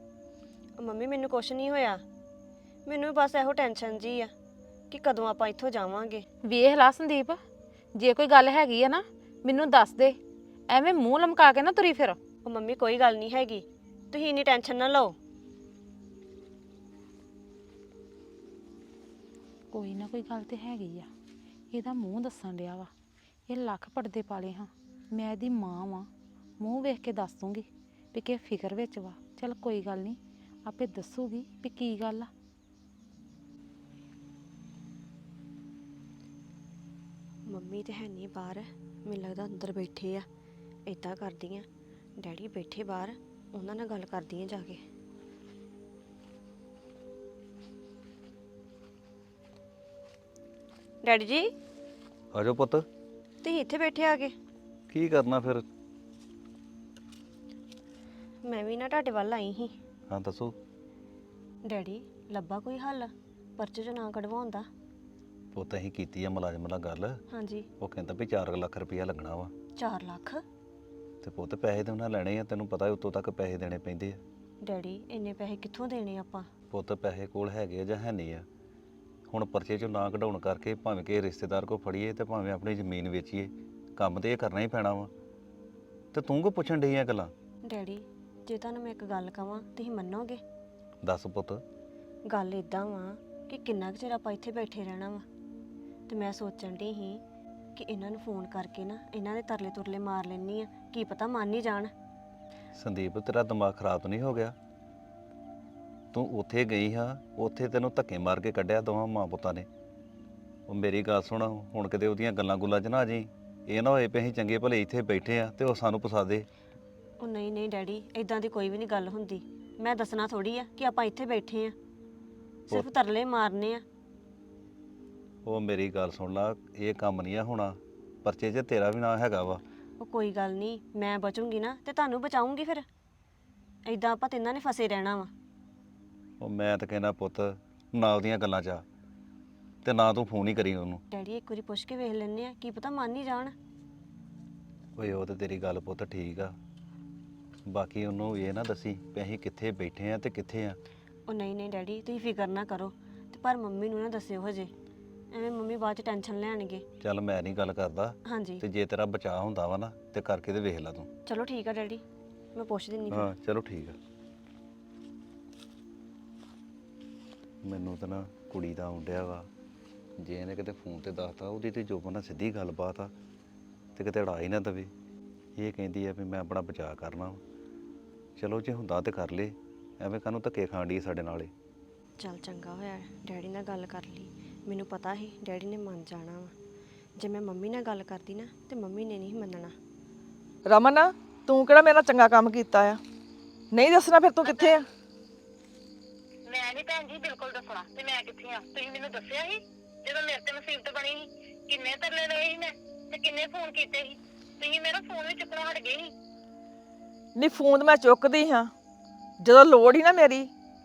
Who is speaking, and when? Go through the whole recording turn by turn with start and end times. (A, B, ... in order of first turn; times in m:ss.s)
0:00.8-0:02.0 A
0:02.8-0:04.3 A
0:04.9-0:06.2 A
0:06.5-0:07.4 B
0:08.0-0:10.2 B
0:10.7-0:12.2 B
0:12.4-0:15.2 A
0:19.7-0:21.1 B
0:21.7-0:22.9 B
0:23.5-0:32.3 B
0:37.4-0:40.2 A
0:40.8-0:44.8 A
0:51.0-0:51.5 A
0:52.3-0:52.8 C
0:53.4-0:54.4 A
0:54.9-0:55.6 C
0:58.4-0:59.8 A
1:00.1-1:00.6 C
1:01.6-1:04.7 A
1:05.5-1:07.2 C
1:07.3-1:07.7 A
1:07.8-1:09.5 C
1:09.8-1:10.4 A
1:11.2-1:14.2 C
1:14.6-1:16.5 A
1:16.7-1:18.5 C
1:19.3-1:25.1 C
1:26.1-1:27.3 C
1:27.6-1:30.4 A
1:31.0-1:31.6 C
1:32.3-1:35.2 A
1:36.1-1:37.2 A
1:37.8-1:41.9 A
1:42.7-1:44.5 C
1:46.1-1:49.7 C
1:50.7-1:56.5 C
1:57.2-2:01.7 A
2:02.7-2:03.8 A
2:02.7-2:02.9 C
2:05.4-2:09.6 C
2:10.0-2:12.8 A
2:13.8-2:15.3 A
2:16.4-2:18.8 C
2:19.8-2:21.0 C
2:21.1-2:23.5 A
2:25.0-2:26.6 C
2:27.7-2:30.8 C
2:31.2-2:34.7 A
2:35.3-2:36.8 A
2:37.0-2:41.1 C
2:38.2-2:38.6 A
2:41.2-2:43.3 A
2:43.1-2:44.0 C
2:47.6-2:49.5 C
2:50.2-2:53.1 C
2:54.0-2:54.9 C
2:55.6-2:57.4 C
2:58.4-3:01.5 C
3:02.2-3:06.5 A
3:07.2-3:09.7 A
3:10.6-3:13.0 D
3:13.7-3:14.8 D
3:14.4-3:14.8 E
3:16.5-3:26.1 E
3:27.4-3:28.7 D
3:29.4-3:30.5 D